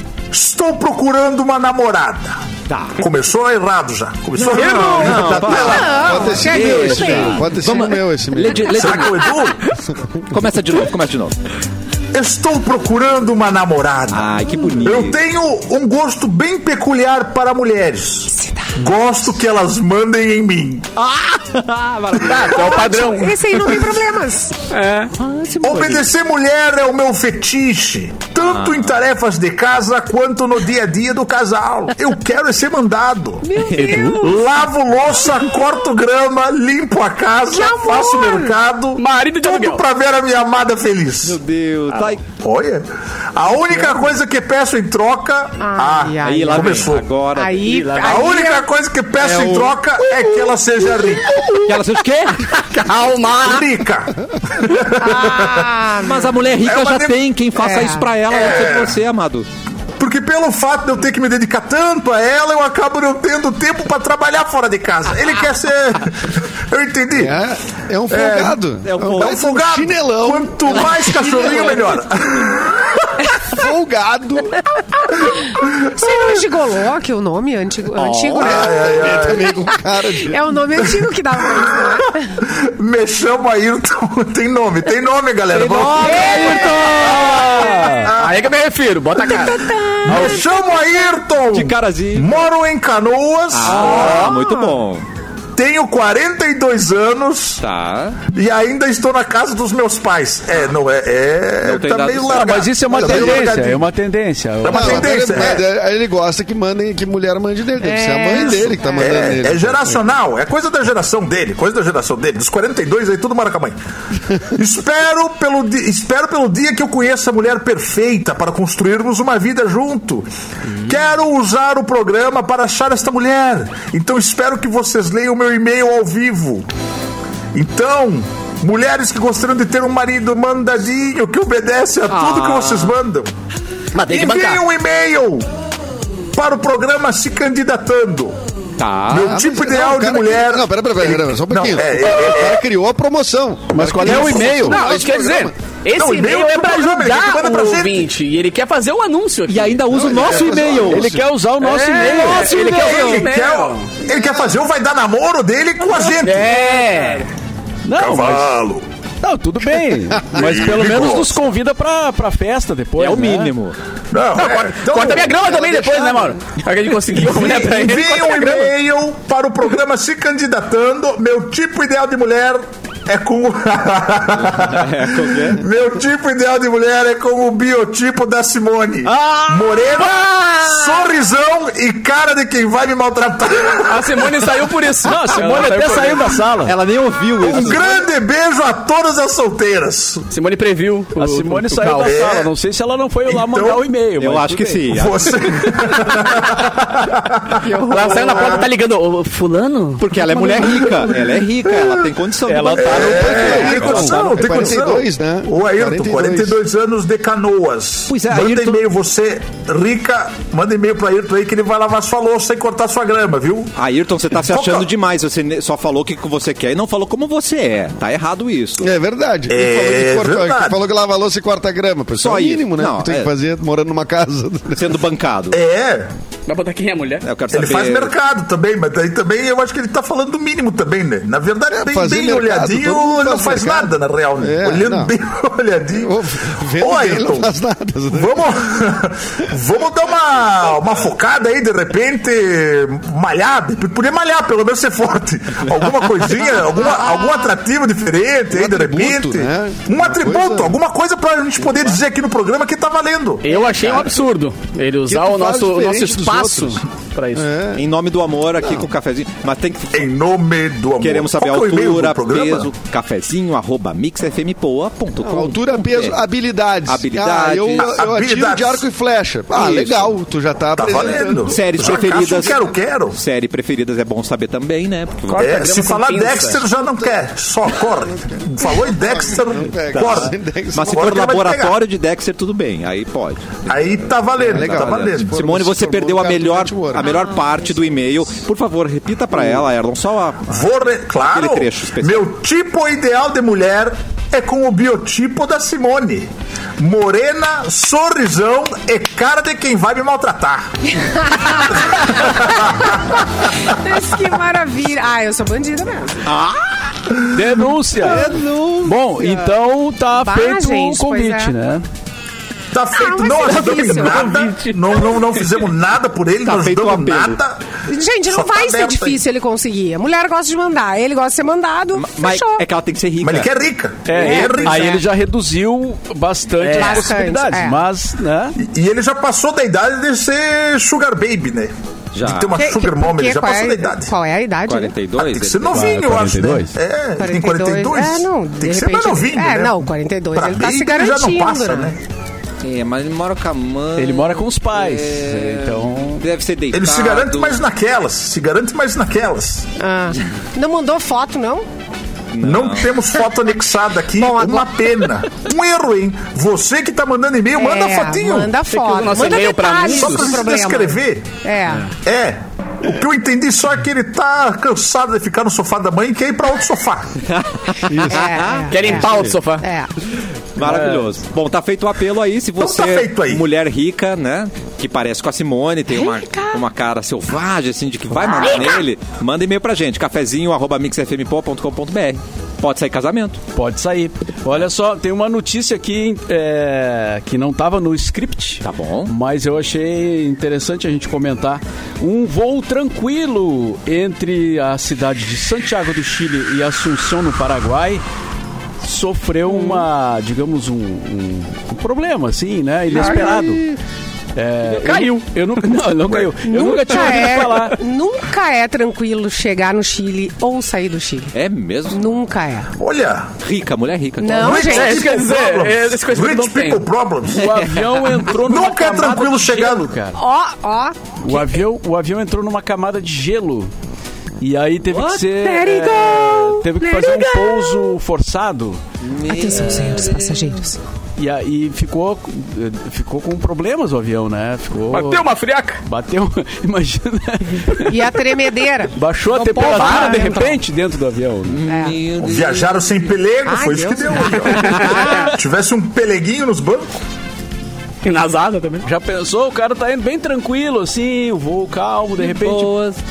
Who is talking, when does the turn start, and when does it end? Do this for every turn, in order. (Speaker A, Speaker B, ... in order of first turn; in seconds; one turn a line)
Speaker A: 0.3-2.4
Speaker B: 2.7-3.0
Speaker A: 3.0-6.0
Speaker B: 4.3-9.4
Speaker C: 4.4-5.5
Speaker D: 5.3-8.7
Speaker E: 5.4-7.9
Speaker A: 8.7-9.6
Speaker B: 10.2-11.3
Speaker A: 12.1-20.9
Speaker B: 14.1-15.2
Speaker E: 18.4-18.7
Speaker B: 20.9-22.9
Speaker C: 22.2-23.5
Speaker E: 22.5-24.6
Speaker C: 24.7-25.1
Speaker B: 25.2-26.0
Speaker A: 25.6-33.5
Speaker B: 28.4-29.0
Speaker E: 33.4-34.5
Speaker B: 33.6-34.1
Speaker C: 33.8-34.2
Speaker A: 34.2-41.4
Speaker E: 37.5-38.6
Speaker C: 39.0-39.8
Speaker B: 41.2-42.2
Speaker A: 42.3-47.1
Speaker E: 45.6-48.7
Speaker B: 46.2-47.9
Speaker C: 47.6-48.4
Speaker A: 48.0-51.3
Speaker D: 49.3-49.7
Speaker C: 50.5-51.8
Speaker B: 51.6-52.5
Speaker C: 52.5-53.7
Speaker A: 53.3-55.7
Speaker E: 55.0-56.4
Speaker B: 56.0-59.5
Speaker A: 56.6-57.2
Speaker E: 57.6-58.1
Speaker A: 58.3-59.0
Speaker A: 60.0-67.4
Speaker D: 67.2-71.8
Speaker A: 68.1-68.6
Speaker B: 68.8-69.5
Speaker A: 69.2-73.1
Speaker D: 73.5-74.6
Speaker E: 75.5-79.7
Speaker A: 75.6-76.4
Speaker B: 77.9-78.7
Speaker A: 78.4-79.5
Speaker D: 78.7-80.4
Speaker E: 80.2-82.3
Speaker A: 82.4-86.5
Speaker B: 85.5-86.9
Speaker C: 86.1-89.8
Speaker E: 86.3-86.7
Speaker A: 87.2-88.4
Speaker F: 87.5-88.1
Speaker E: 89.2-90.4
Speaker A: 90.0-94.3
Speaker B: 91.5-92.4
Speaker B: 93.5-95.0
Speaker E: 93.7-94.8
Speaker C: 93.8-94.1
Speaker A: 95.5-97.6
Speaker B: 97.6-98.2
Speaker A: 98.3-103.8
Speaker B: 101.6-102.7
Speaker F: 102.3-105.1
Speaker D: 102.9-103.5
Speaker A: 104.6-105.6
Speaker D: 104.7-110.0
Speaker E: 107.8-109.3
Speaker A: 108.3-113.8
Speaker A: 114.5-126.7
Speaker A: 127.5-133.3
Speaker B: 132.1-132.9
Speaker C: 133.9-134.6
Speaker A: 134.0-135.4
Speaker A: 136.3-138.3
Speaker B: 138.8-139.4
Speaker A: 139.1-142.6
Speaker D: 139.2-145.5
Speaker F: 143.7-144.8
Speaker C: 144.1-149.9
Speaker A: 145.9-148.1
Speaker B: 149.5-151.2
Speaker D: 149.9-151.2
Speaker A: 150.4-150.8
Speaker F: 150.8-152.6
Speaker C: 151.6-154.0
Speaker B: 152.0-153.3
Speaker A: 152.7-156.7
Speaker C: 155.9-157.3
Speaker F: 157.8-158.5
Speaker A: 157.9-158.8
Speaker F: 159.2-163.5
Speaker A: 160.3-161.4
Speaker B: 163.0-163.8
Speaker A: 164.1-166.1
Speaker C: 164.4-168.7
Speaker A: 167.2-184.5
Speaker B: 174.4-175.6
Speaker B: 179.0-181.1
Speaker C: 183.7-186.4
Speaker F: 185.0-186.7
Speaker B: 186.6-188.1
Speaker A: 187.4-190.2
Speaker C: 190.3-192.2
Speaker F: 191.2-194.9
Speaker A: 192.0-192.5
Speaker A: 193.3-193.9
Speaker B: 194.2-195.7
Speaker A: 194.9-198.7
Speaker E: 197.7-198.2
Speaker C: 197.7-200.8
Speaker B: 200.0-204.7
Speaker A: 201.7-202.1
Speaker F: 202.5-204.2
Speaker A: 202.8-213.7
Speaker D: 203.1-206.6
Speaker B: 208.1-208.8
Speaker B: 213.8-218.9
Speaker A: 214.3-214.9
Speaker D: 218.8-225.0
Speaker A: 219.5-220.7
Speaker B: 222.2-223.3
Speaker B: 224.7-225.6
Speaker A: 225.5-226.1
Speaker C: 226.5-227.2
Speaker B: 227.2-228.1
Speaker A: 227.5-236.1
Speaker D: 231.7-235.1
Speaker D: 236.0-238.5
Speaker A: 236.8-237.5
Speaker A: 238.1-253.4
Speaker D: 248.5-250.7
Speaker C: 253.4-257.5
Speaker D: 255.1-256.8
Speaker D: 257.3-257.8
Speaker B: 257.7-260.1
Speaker D: 258.6-258.9
Speaker A: 259.9-262.7
Speaker B: 261.0-266.2
Speaker D: 265.2-272.3
Speaker B: 266.9-268.0
Speaker A: 267.7-268.8
Speaker B: 269.5-270.1
Speaker A: 270.7-273.2
Speaker B: 270.8-275.5
Speaker C: 275.3-276.6
Speaker A: 275.4-280.3
Speaker D: 278.2-281.3
Speaker B: 279.9-292.3
Speaker A: 280.9-281.8
Speaker A: 283.7-285.4
Speaker D: 284.4-287.2
Speaker E: 287.0-287.5
Speaker A: 290.5-300.7
Speaker E: 301.2-306.2
Speaker A: 301.4-303.2
Speaker B: 306.2-307.3
Speaker F: 307.3-311.8
Speaker B: 307.9-309.5
Speaker E: 310.1-311.5
Speaker A: 312.7-317.6
Speaker E: 312.9-314.2
Speaker C: 313.3-315.6
Speaker B: 316.4-317.4
Speaker E: 317.9-322.6
Speaker A: 318.3-319.2
Speaker B: 321.9-323.5
Speaker A: 323.2-325.0
Speaker F: 324.1-328.6
Speaker E: 324.1-325.0
Speaker C: 326.6-327.1
Speaker E: 326.8-327.8
Speaker A: 328.6-334.1
Speaker B: 332.1-332.6
Speaker E: 332.6-334.9
Speaker B: 334.7-335.9
Speaker A: 335.2-342.0
Speaker F: 335.7-336.7
Speaker E: 337.2-341.9
Speaker B: 342.6-347.6
Speaker F: 343.9-346.2
Speaker A: 346.7-349.6
Speaker E: 349.8-351.6
Speaker B: 352.3-353.0
Speaker A: 352.4-358.6
Speaker E: 354.2-354.6
Speaker E: 357.6-361.9
Speaker C: 358.7-360.5
Speaker A: 359.8-361.2
Speaker A: 362.0-367.1
Speaker B: 367.2-368.9
Speaker D: 367.9-368.2
Speaker E: 368.1-369.1
Speaker C: 368.7-369.7
Speaker E: 369.6-369.9
Speaker B: 370.5-383.4
Speaker F: 370.6-371.0
Speaker A: 372.6-373.4
Speaker E: 375.9-376.5
Speaker E: 378.2-378.8
Speaker F: 383.5-398.0
Speaker B: 388.6-389.1
Speaker F: 398.8-403.6
Speaker E: 402.9-403.5
Speaker C: 403.0-403.4
Speaker F: 404.3-407.8
Speaker C: 404.7-405.3
Speaker E: 406.4-411.4
Speaker B: 411.3-412.2
Speaker E: 411.9-412.7
Speaker A: 412.8-413.3
Speaker B: 413.4-414.9
Speaker E: 414.2-415.0
Speaker A: 414.3-417.4
Speaker C: 414.6-416.9
Speaker F: 417.3-420.2
Speaker B: 417.4-418.0
Speaker A: 418.4-419.9
Speaker E: 420.1-421.4
Speaker F: 421.2-423.7
Speaker F: 424.4-428.8
Speaker B: 424.9-425.4
Speaker E: 425.4-427.8
Speaker B: 429.0-430.4
Speaker E: 429.2-430.8
Speaker F: 431.2-435.2
Speaker C: 434.9-435.8
Speaker F: 435.8-438.0
Speaker E: 437.8-438.9
Speaker F: 438.9-441.6
Speaker C: 439.3-440.5
Speaker E: 439.6-440.6
Speaker B: 441.5-442.9
Speaker E: 441.7-442.0
Speaker A: 442.2-447.0
Speaker E: 443.4-445.3
Speaker C: 444.7-445.3
Speaker C: 448.0-448.9
Speaker F: 448.8-452.8
Speaker B: 452.2-453.0